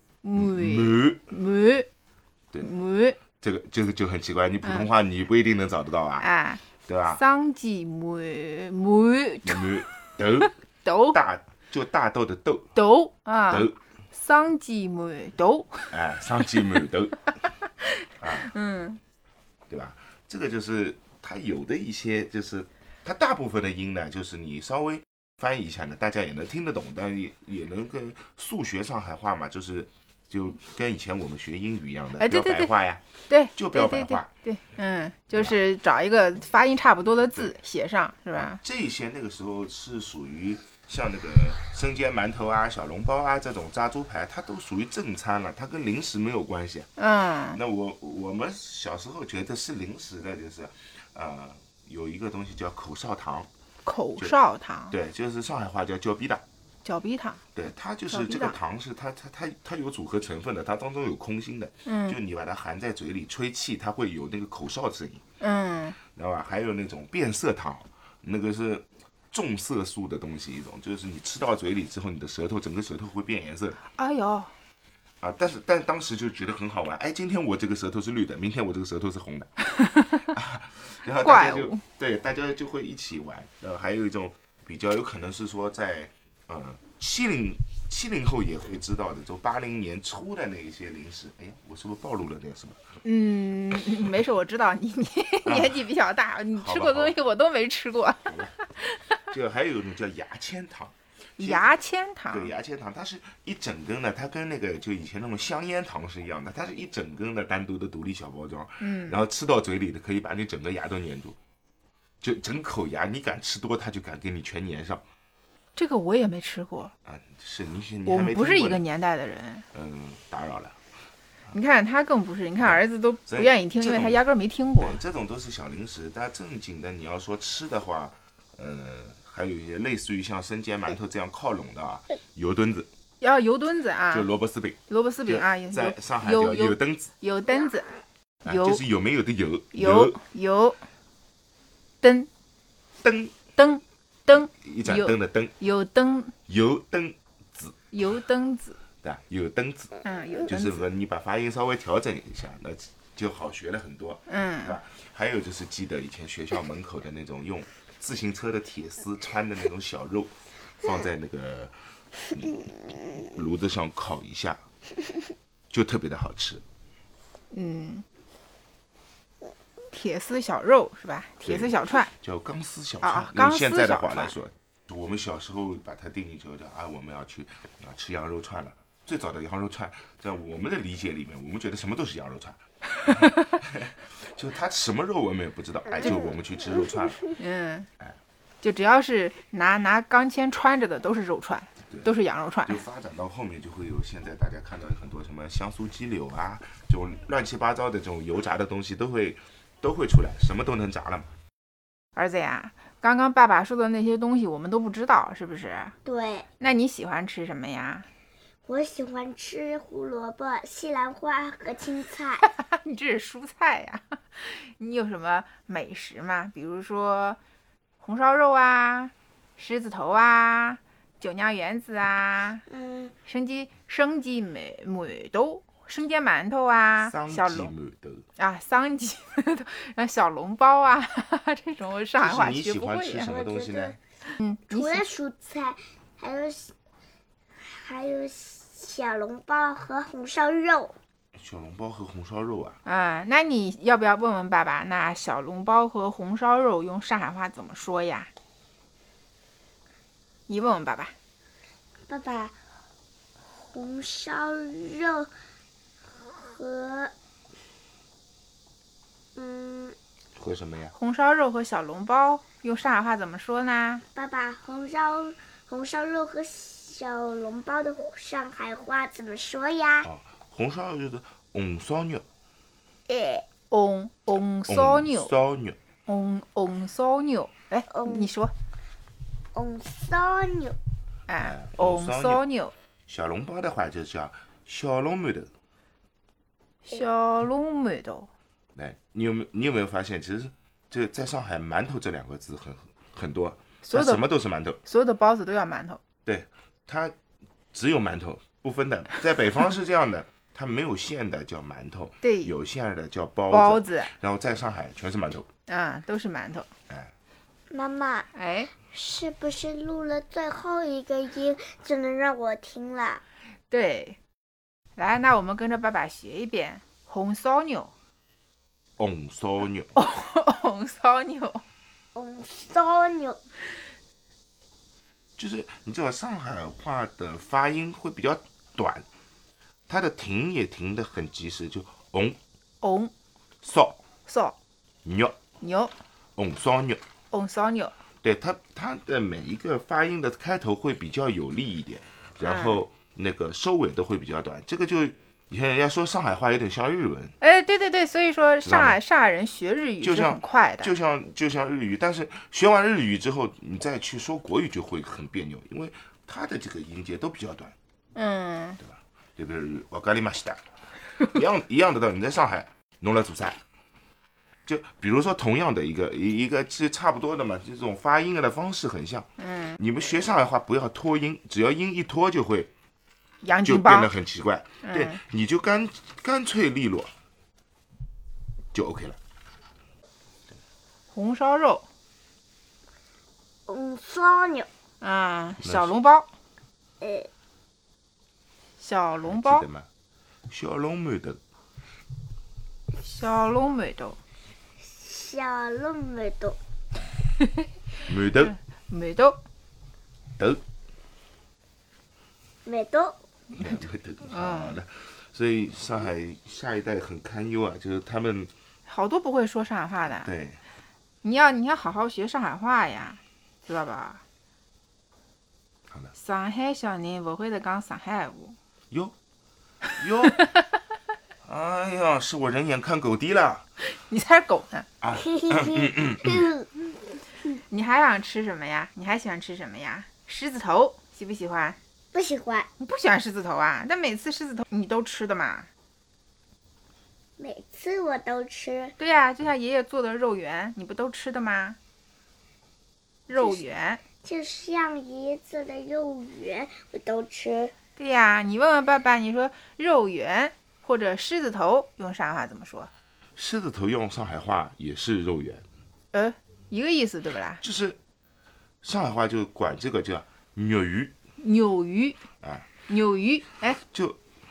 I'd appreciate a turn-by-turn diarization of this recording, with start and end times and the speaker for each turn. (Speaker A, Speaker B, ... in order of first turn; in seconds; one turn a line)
Speaker A: 0.2-1.9
Speaker B: 0.3-1.3
Speaker A: 2.6-3.2
Speaker B: 3.3-6.3
Speaker A: 4.6-4.9
Speaker A: 6.2-9.8
Speaker B: 6.8-7.2
Speaker B: 9.4-10.5
Speaker A: 10.3-11.2
Speaker B: 11.1-12.7
Speaker A: 12.8-15.9
Speaker B: 13.5-13.8
Speaker B: 15.9-17.3
Speaker A: 17.8-19.0
Speaker B: 18.2-18.5
Speaker B: 19.7-33.0
Speaker A: 32.2-32.7
Speaker A: 33.3-38.6
Speaker B: 33.6-34.3
Speaker B: 38.4-46.9
Speaker A: 47.0-47.6
Speaker B: 47.5-53.5
Speaker A: 53.9-54.9
Speaker B: 54.9-56.4
Speaker A: 56.9-57.4
Speaker B: 57.5-65.2
Speaker A: 58.1-58.6
Speaker A: 61.9-62.2
Speaker A: 65.4-66.0
Speaker B: 66.1-73.8
Speaker A: 73.9-74.5
Speaker B: 75.2-79.5
Speaker A: 79.8-80.3
Speaker B: 80.3-92.8
Speaker A: 81.2-81.8
Speaker A: 93.0-99.2
Speaker B: 95.4-95.9
Speaker B: 96.6-97.2
Speaker B: 98.3-98.5
Speaker B: 99.3-101.7
Speaker A: 101.4-102.5
Speaker B: 102.3-111.4
Speaker A: 108.8-109.2
Speaker B: 112.2-115.0
Speaker A: 115.8-116.9
Speaker B: 117.0-118.8
Speaker A: 118.0-119.7
Speaker B: 119.7-120.8
Speaker A: 121.5-125.0
Speaker B: 122.6-124.2
Speaker B: 124.8-132.9
Speaker A: 133.2-134.3
Speaker B: 134.1-137.1
Speaker A: 134.9-137.9
Speaker B: 138.4-140.2
Speaker A: 138.5-138.8
Speaker A: 139.7-140.8
Speaker A: 142.0-142.3
Speaker B: 143.0-143.3
Speaker A: 143.6-146.3
Speaker B: 144.5-145.5
Speaker B: 146.5-147.8
Speaker A: 147.9-148.8
Speaker B: 149.0-161.8
Speaker A: 150.0-150.8
Speaker A: 154.3-154.8
Speaker B: 162.3-164.6
Speaker B: 165.7-166.6
Speaker A: 167.5-168.1
Speaker A: 169.9-172.1
Speaker B: 171.4-187.2
Speaker A: 173.0-174.3
Speaker A: 183.0-183.5
Speaker C: 186.0-186.3
Speaker A: 187.4-187.9
Speaker A: 188.6-192.8
Speaker B: 192.7-201.3
Speaker A: 202.2-205.9
Speaker C: 206.1-206.5
Speaker A: 206.6-208.1
Speaker C: 208.7-212.4
Speaker A: 212.5-217.4
Speaker A: 218.0-222.7
Speaker C: 222.7-223.1
Speaker A: 223.3-227.7
Speaker B: 227.0-228.2
Speaker A: 228.4-233.3
Speaker B: 232.2-234.0
Speaker C: 233.2-234.0
Speaker A: 234.4-235.1
Speaker C: 234.7-236.7
Speaker C: 237.6-240.9
Speaker B: 241.4-242.8
Speaker A: 242.8-248.3
Speaker A: 250.5-251.2
Speaker C: 252.1-252.6
Speaker C: 253.6-255.3
Speaker C: 256.4-257.1
Speaker C: 259.4-259.9
Speaker B: 260.4-260.9
Speaker A: 260.9-264.0
Speaker C: 264.1-270.1
Speaker B: 270.0-272.2
Speaker C: 273.1-273.4
Speaker A: 273.7-275.3
Speaker B: 274.7-275.8
Speaker A: 276.1-278.5
Speaker C: 277.9-278.3
Speaker C: 279.5-280.8
Speaker A: 281.3-282.7
Speaker B: 281.4-282.4
Speaker B: 283.1-285.5
Speaker A: 286.9-288.3
Speaker B: 288.8-294.8
Speaker A: 293.8-294.2
Speaker A: 294.8-296.0
Speaker B: 296.2-297.1
Speaker B: 297.7-305.5
Speaker A: 302.2-302.5
Speaker A: 303.5-304.1
Speaker A: 305.7-306.7
Speaker C: 307.7-308.3
Speaker A: 308.3-308.7
Speaker C: 308.9-313.2
Speaker A: 313.7-314.2
Speaker A: 315.0-317.9
Speaker B: 319.0-319.9
Speaker A: 319.9-321.6
Speaker C: 322.1-323.4
Speaker B: 325.4-329.1
Speaker B: 329.9-332.4
Speaker A: 332.8-333.1
Speaker B: 333.6-334.0
Speaker A: 334.2-334.6
Speaker B: 335.1-335.4
Speaker A: 335.6-335.9
Speaker B: 336.4-337.0
Speaker A: 337.3-337.9
Speaker B: 338.2-347.4
Speaker A: 342.4-342.8
Speaker A: 347.4-350.9
Speaker B: 348.6-349.0
Speaker B: 350.0-357.8
Speaker A: 358.1-358.8
Speaker B: 358.8-360.6
Speaker B: 361.2-363.6
Speaker B: 364.7-372.7
Speaker A: 369.4-369.8
Speaker A: 373.4-374.1
Speaker B: 373.6-377.1
Speaker A: 374.8-375.2
Speaker B: 378.7-379.2
Speaker A: 381.1-381.9
Speaker C: 383.7-384.7
Speaker A: 385.0-386.3
Speaker B: 385.6-385.9
Speaker C: 387.0-387.3
Speaker A: 388.8-389.7
Speaker B: 389.2-389.9
Speaker B: 390.5-391.4
Speaker A: 393.0-394.2
Speaker C: 394.9-396.6
Speaker B: 398.1-398.6
Speaker A: 398.4-399.4
Speaker B: 400.4-400.6
Speaker C: 402.6-403.2
Speaker A: 403.5-404.8
Speaker B: 403.6-408.5
Speaker A: 408.9-410.3
Speaker B: 410.2-410.6
Speaker A: 411.2-414.2
Speaker A: 416.1-418.6
Speaker B: 420.0-420.5
Speaker B: 421.4-423.7
Speaker A: 423.8-424.9
Speaker B: 425.0-426.5
Speaker C: 425.1-426.7
Speaker A: 427.7-431.8
Speaker C: 432.1-432.7
Speaker A: 432.8-435.7
Speaker C: 437.4-439.0
Speaker A: 439.0-441.8
Speaker A: 443.3-444.0
Speaker C: 444.2-447.7
Speaker A: 448.0-452.9
Speaker B: 453.4-455.6
Speaker A: 456.1-457.6
Speaker B: 457.6-458.0
Speaker B: 458.8-461.1
Speaker A: 461.4-462.2
Speaker B: 462.4-462.7
Speaker A: 462.9-463.8
Speaker B: 463.8-464.2